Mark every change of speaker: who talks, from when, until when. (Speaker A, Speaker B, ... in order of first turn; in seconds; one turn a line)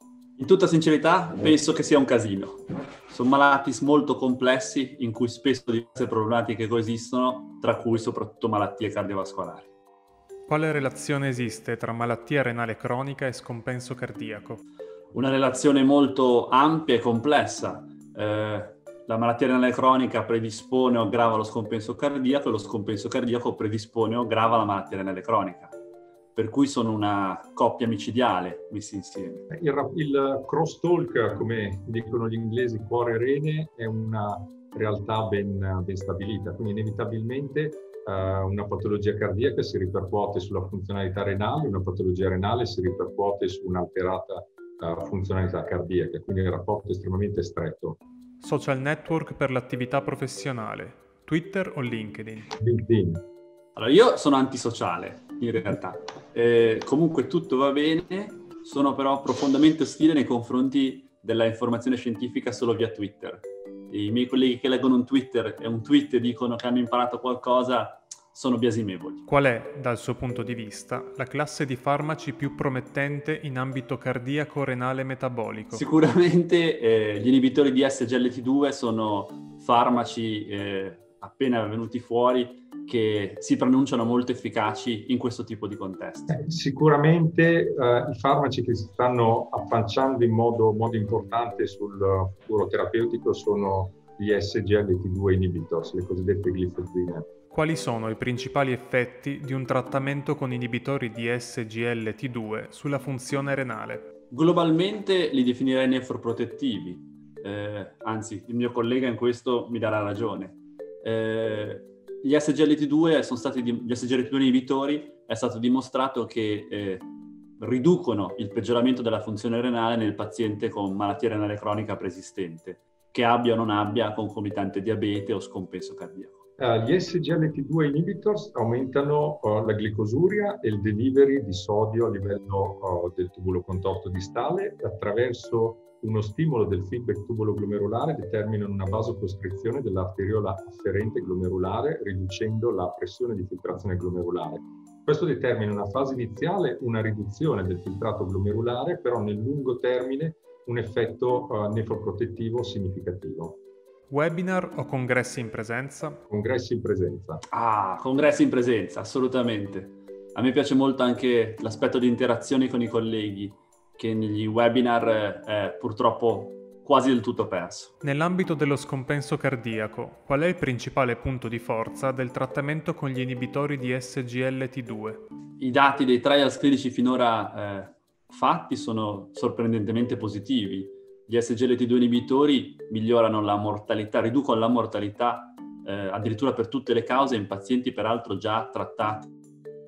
Speaker A: 0.4-9.7
Speaker B: 10.5-14.6
Speaker A: 15.1-25.7
Speaker A: 26.4-29.4
Speaker C: 29.5-48.0
Speaker B: 48.4-52.5
Speaker C: 52.6-53.2
Speaker A: 53.8-69.2
Speaker B: 69.3-75.8
Speaker A: 75.7-86.4
Speaker C: 86.3-97.3
Speaker B: 97.5-104.1
Speaker A: 104.3-126.4
Speaker C: 126.6-153.6
Speaker B: 154.1-156.2
Speaker C: 156.3-157.4
Speaker A: 157.5-167.9
Speaker B: 168.0-175.2
Speaker A: 175.6-189.3